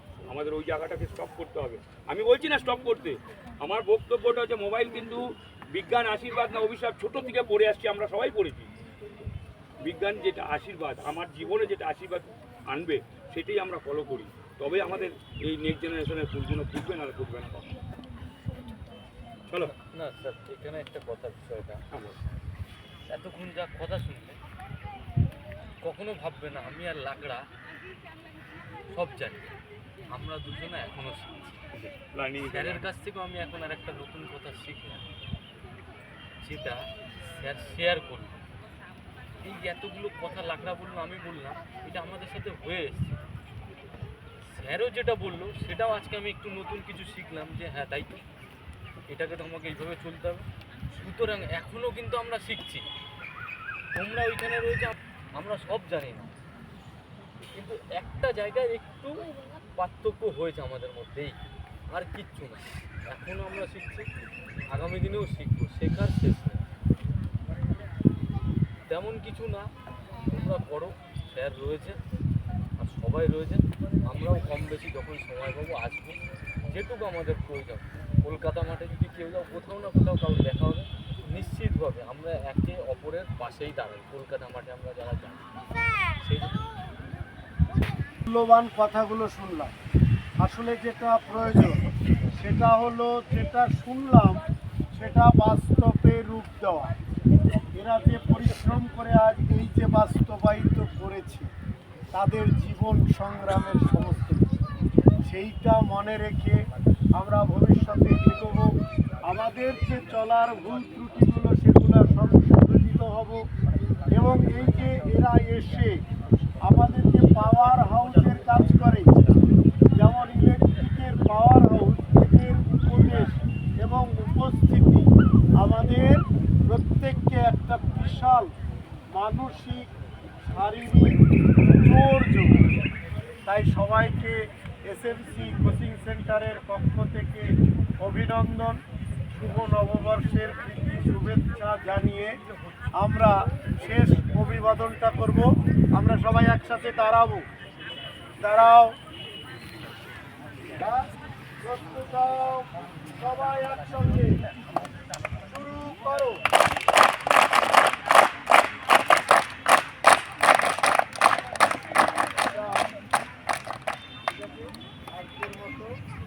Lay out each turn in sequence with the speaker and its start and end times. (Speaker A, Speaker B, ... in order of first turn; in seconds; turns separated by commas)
Speaker A: 0.2-8.7, Speaker A: 9.8-17.7, Speaker B: 19.7-21.8, Speaker A: 21.9-22.2, Speaker B: 23.1-24.4, Speaker B: 25.8-27.4, Speaker B: 28.9-29.5, Speaker B: 30.1-31.6, Speaker A: 31.7-32.9, Speaker B: 32.5-35.0, Speaker B: 36.4-38.3, Speaker B: 39.4-43.2, Speaker B: 44.5-48.2, Speaker B: 49.1-52.8, Speaker B: 53.9-56.4, Speaker B: 57.5-59.1, Speaker B: 59.8-61.4, Speaker B: 61.9-64.0, Speaker B: 64.7-66.6, Speaker B: 68.9-69.7, Speaker B: 70.3-72.0, Speaker B: 72.8-85.4, Speaker B: 86.2-86.6, Speaker C: 88.3-89.7, Speaker C: 90.4-91.8, Speaker C: 92.4-94.4, Speaker C: 94.9-96.9, Speaker C: 97.8-101.5, Speaker C: 102.1-104.5, Speaker C: 105.2-106.6, Speaker C: 107.2-108.7, Speaker C: 109.3-113.4, Speaker C: 114.1-116.0, Speaker C: 116.7-119.1, Speaker C: 120.0-125.0, Speaker C: 125.6-128.5, Speaker C: 129.1-129.8, Speaker C: 130.5-131.2, Speaker C: 131.7-132.6, Speaker C: 133.4-137.5, Speaker C: 138.0-138.8, Speaker C: 139.3-142.3, Speaker C: 143.0-147.4, Speaker C: 148.4-148.9, Speaker C: 150.7-151.1, Speaker C: 151.6-154.4, Speaker C: 155.4-156.4, Speaker C: 162.4-162.9, Speaker C: 164.3-165.9